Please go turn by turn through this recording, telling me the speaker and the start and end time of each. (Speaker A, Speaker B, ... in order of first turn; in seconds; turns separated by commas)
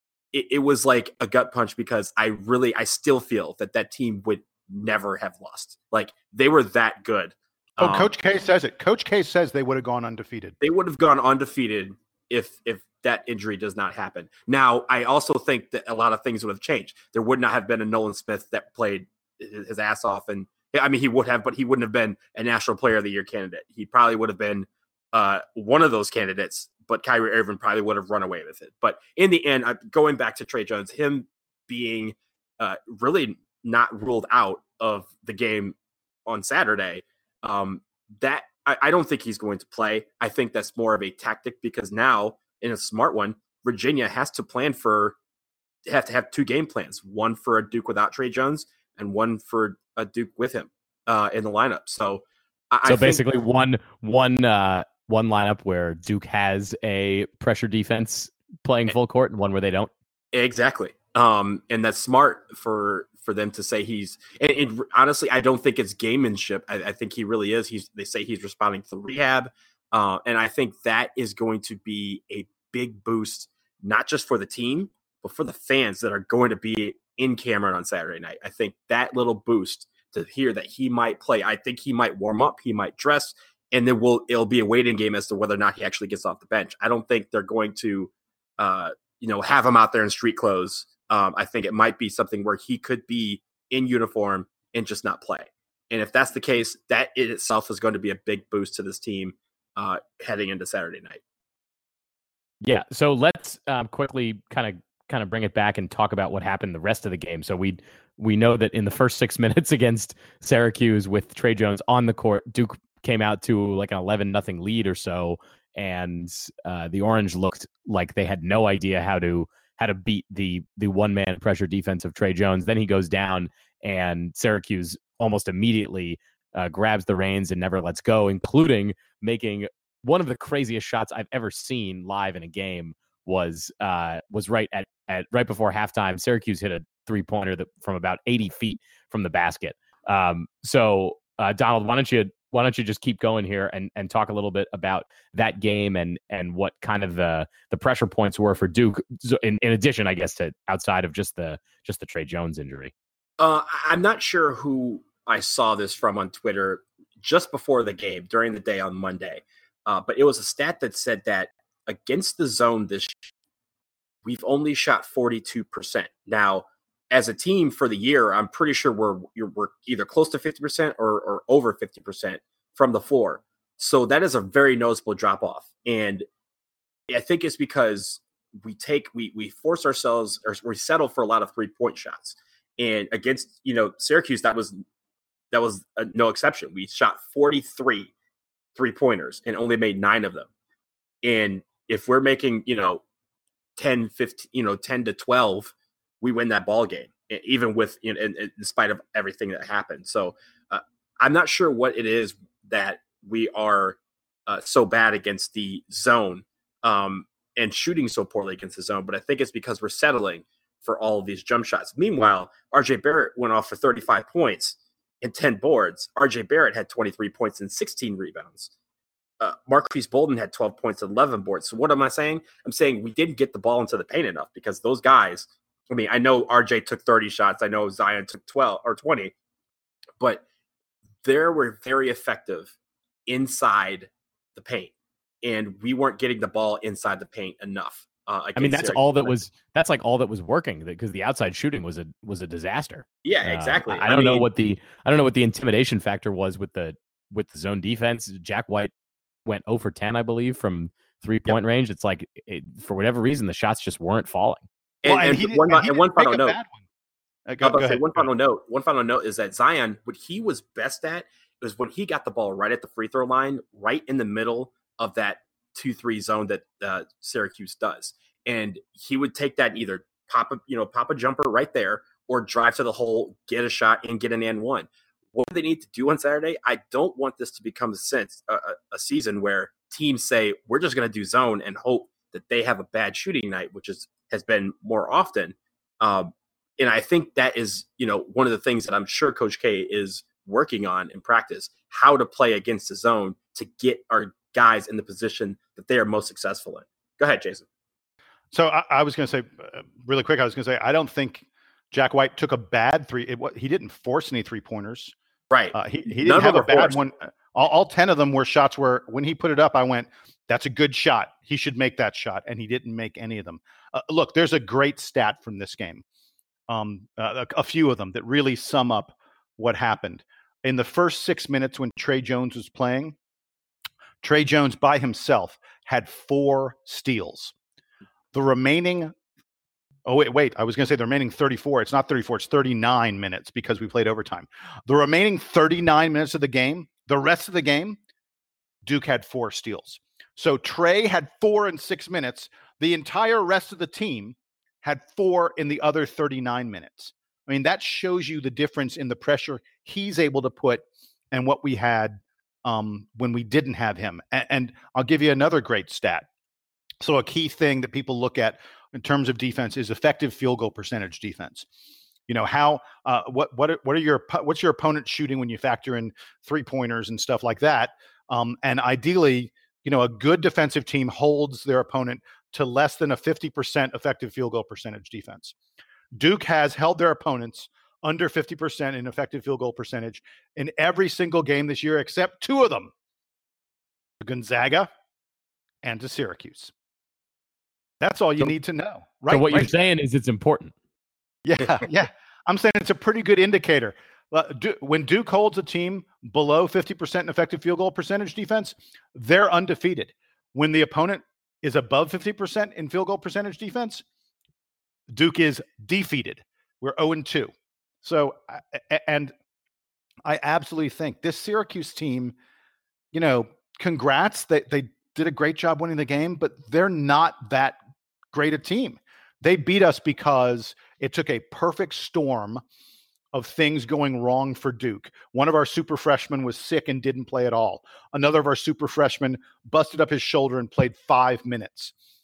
Speaker A: 0.3-8.1, Speaker B: 7.8-10.6, Speaker A: 10.6-35.8, Speaker A: 36.3-45.2, Speaker A: 45.9-53.2, Speaker C: 52.9-59.9, Speaker A: 60.3-101.2, Speaker C: 102.6-152.9, Speaker A: 153.4-163.3, Speaker A: 164.2-176.3, Speaker A: 177.1-184.8, Speaker A: 185.5-188.1, Speaker A: 188.8-190.5, Speaker A: 191.2-193.0, Speaker A: 193.8-218.7, Speaker A: 219.4-229.3, Speaker A: 231.2-232.7, Speaker A: 233.3-239.4, Speaker C: 238.6-248.9, Speaker A: 243.2-244.5, Speaker C: 249.5-254.7, Speaker A: 255.0-256.6, Speaker B: 255.1-256.9, Speaker B: 257.5-258.3, Speaker A: 257.6-297.6, Speaker B: 298.5-305.1, Speaker A: 305.5-307.0, Speaker B: 305.7-316.0, Speaker B: 316.7-323.2, Speaker B: 324.2-327.5, Speaker B: 328.3-329.1, Speaker B: 330.1-338.0, Speaker B: 338.8-356.3, Speaker B: 357.0-361.7, Speaker B: 362.3-375.6, Speaker B: 376.2-382.9, Speaker B: 384.2-384.9, Speaker B: 385.8-386.7, Speaker B: 388.0-389.7, Speaker C: 389.3-390.7, Speaker B: 391.4-404.0, Speaker B: 405.1-409.3, Speaker B: 410.2-412.4, Speaker B: 413.1-417.8, Speaker B: 418.3-422.6, Speaker B: 423.3-431.9